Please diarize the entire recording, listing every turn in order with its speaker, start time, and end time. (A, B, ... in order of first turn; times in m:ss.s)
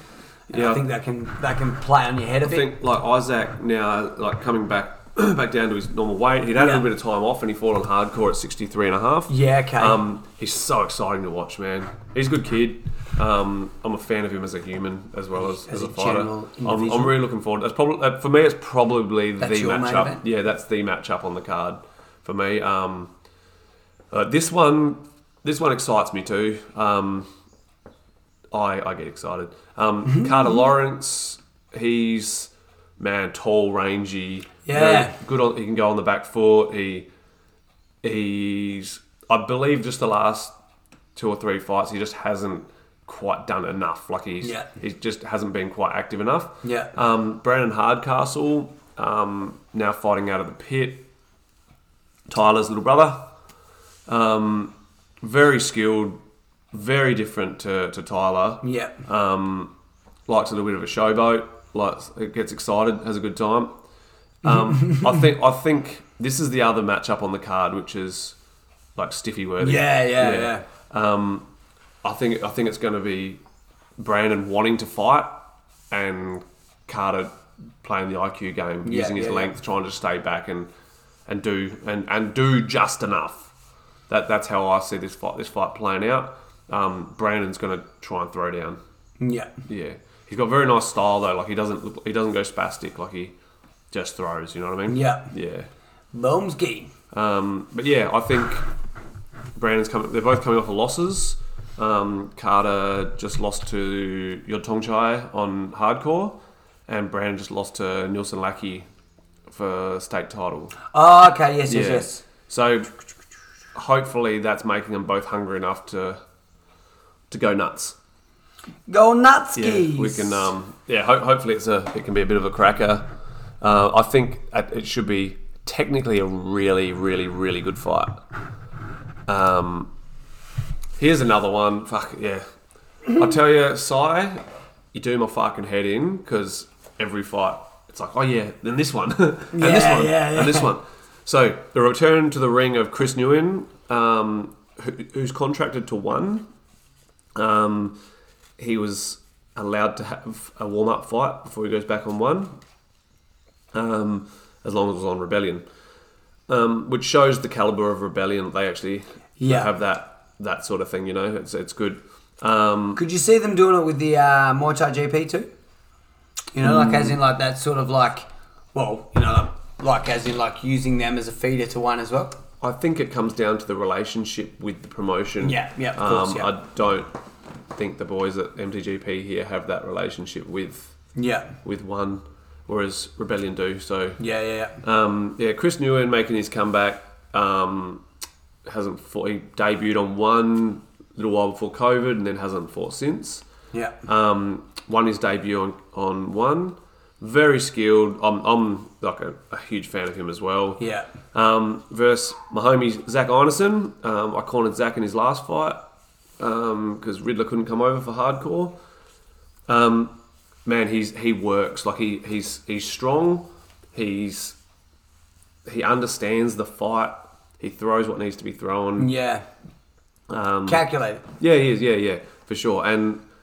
0:00.5-0:02.7 A
0:00.5-0:00.8 B
0:02.4-0:23.1 B
0:06.6-0:06.9 A
0:09.3-0:10.0 A
0:15.4-0:17.2 A
0:19.4-0:20.2 A
0:24.1-0:27.3 B
0:28.5-0:37.1 B
0:30.1-0:30.6 A
0:34.7-0:35.2 A
0:38.0-0:40.6 B
0:41.2-0:51.1 B
0:44.4-0:44.7 A
0:46.6-0:46.9 A
0:52.3-0:53.2 B
0:54.1-0:56.2 B
0:56.7-0:59.7 B
0:58.6-0:59.0 A
1:00.3-1:03.8 B
1:04.4-1:08.4 B
1:04.5-1:05.2 A
1:09.0-1:11.5 B
1:09.6-1:10.7 A
1:12.0-1:13.4 B
1:14.0-1:15.4 B
1:15.9-1:20.7 B
1:18.8-1:19.6 A
1:21.3-1:23.5 B
1:24.1-1:28.8 B
1:29.2-1:29.5 A
1:29.7-1:33.3 B
1:33.9-1:35.7 B
1:34.9-1:35.3 A
1:36.1-1:36.9 A
1:37.1-1:38.7 B
1:39.6-1:48.9 B
1:49.5-1:50.8 B
1:50.9-1:52.2 A
1:51.7-1:52.9 B
1:53.8-1:56.2 B
1:57.3-1:58.0 B
1:58.9-2:00.5 A
1:59.6-2:03.1 B
2:03.6-2:08.2 B
2:09.3-2:09.9 B
2:11.0-2:12.4 B
2:13.1-2:14.4 B
2:14.9-2:26.5 B
2:19.5-2:20.7 A
2:27.4-2:28.0 B
2:28.6-2:32.6 B
2:33.7-2:35.6 B
2:36.5-2:43.0 B
2:39.4-2:39.7 A
2:43.0-2:45.5 A
2:46.5-2:52.4 A
2:46.6-2:47.2 B
2:52.6-2:57.1 B
2:55.4-2:56.5 A
2:57.8-3:00.9 B
3:01.2-3:01.6 A
3:01.6-3:04.2 B
3:04.2-3:04.8 A
3:04.8-3:08.0 B
3:08.7-3:13.4 B
3:13.7-3:14.0 A
3:14.1-3:20.8 B
3:20.8-3:21.1 A
3:21.3-3:25.8 B
3:26.4-3:28.8 B
3:29.7-3:30.2 B
3:30.7-3:34.6 B
3:35.7-3:39.1 B
3:39.0-3:39.5 A
3:40.3-3:40.8 B
3:40.7-3:41.2 A
3:41.4-3:43.2 B